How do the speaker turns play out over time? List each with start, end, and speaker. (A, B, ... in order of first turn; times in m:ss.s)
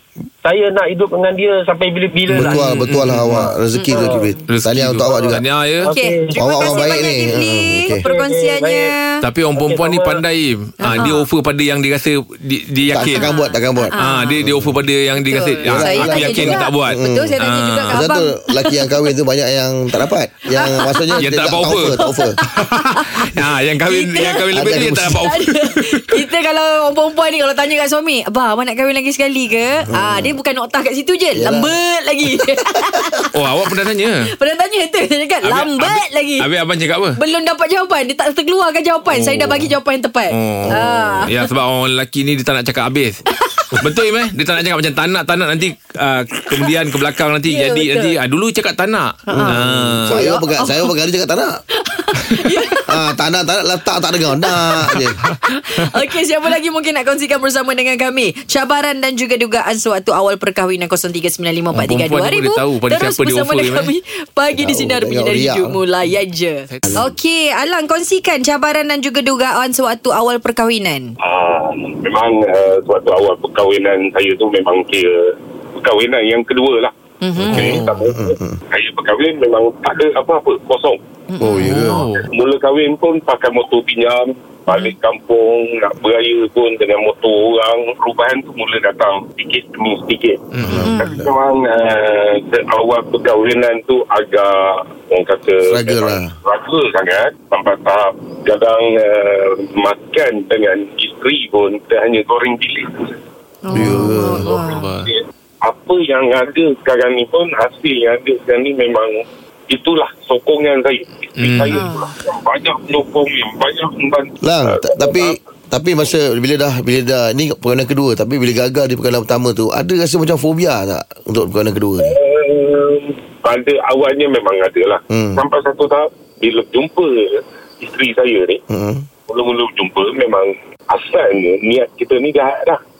0:00.4-0:02.6 A
0:02.3-0:03.5 B
0:02.4-0:05.4 C
0:03.7-0:04.4 D
0:04.0-0:04.2 A
0:04.5-0:05.9 B
0:05.8-0:07.1 A
0:05.8-0:09.2 D
0:06.4-0:08.0 C
0:08.1-0:08.9 A
0:09.2-0:13.2 B
0:09.6-0:10.2 A
0:10.8-0:11.3 D
0:12.9-0:14.8 C
0:13.1-0:14.4 D
0:14.0-0:18.0 B
0:15.2-0:19.0 D
0:15.6-0:22.4 C
0:20.5-0:21.3 D
0:21.2-0:22.0 B
0:21.8-0:23.3 D
0:22.5-0:26.2 B
0:23.8-0:33.3 D
0:24.5-0:25.2 C
0:29.9-0:30.4 C
0:31.3-0:31.8 C
0:33.3-0:34.3 B
0:34.2-0:36.5 D
0:35.4-0:37.2 B
0:37.2-0:41.4 D
0:39.1-0:39.7 B
0:40.3-0:43.2 B
0:40.6-0:41.2 C
0:43.5-0:43.8 D
0:43.8-0:50.2 B
0:47.4-0:48.2 D
0:49.3-0:50.9 D
0:49.3-0:51.5 C
0:51.8-0:53.0 D
0:52.9-0:55.2 C
0:54.4-0:54.8 D
0:55.2-0:55.9 B
0:55.5-1:11.1 D
1:01.7-1:03.9 B
1:04.6-1:05.8 C
1:06.7-1:07.1 B
1:11.2-1:15.2 E
1:15.8-1:16.9 E
1:17.2-1:17.8 D
1:17.4-1:18.0 B
1:17.4-1:18.6 C
1:17.5-1:21.0 E
1:21.3-1:22.0 D
1:21.4-1:22.0 C
1:21.6-1:22.2 B
1:22.1-1:43.1 E
1:24.7-1:24.9 D
1:30.5-1:30.9 B
1:30.6-1:31.3 C
1:30.8-1:31.3 D
1:35.6-1:36.3 C
1:43.6-1:44.9 D
1:43.7-1:44.5 C
1:43.8-1:45.1 B
1:44.7-1:49.2 E
1:49.7-1:55.4 E
1:51.4-1:51.9 B
1:51.7-1:52.1 D
1:54.4-2:02.1 C
2:02.0-2:07.2 E
2:05.1-2:05.4 C
2:07.8-2:08.6 E
2:08.7-2:09.1 C
2:09.3-2:12.8 E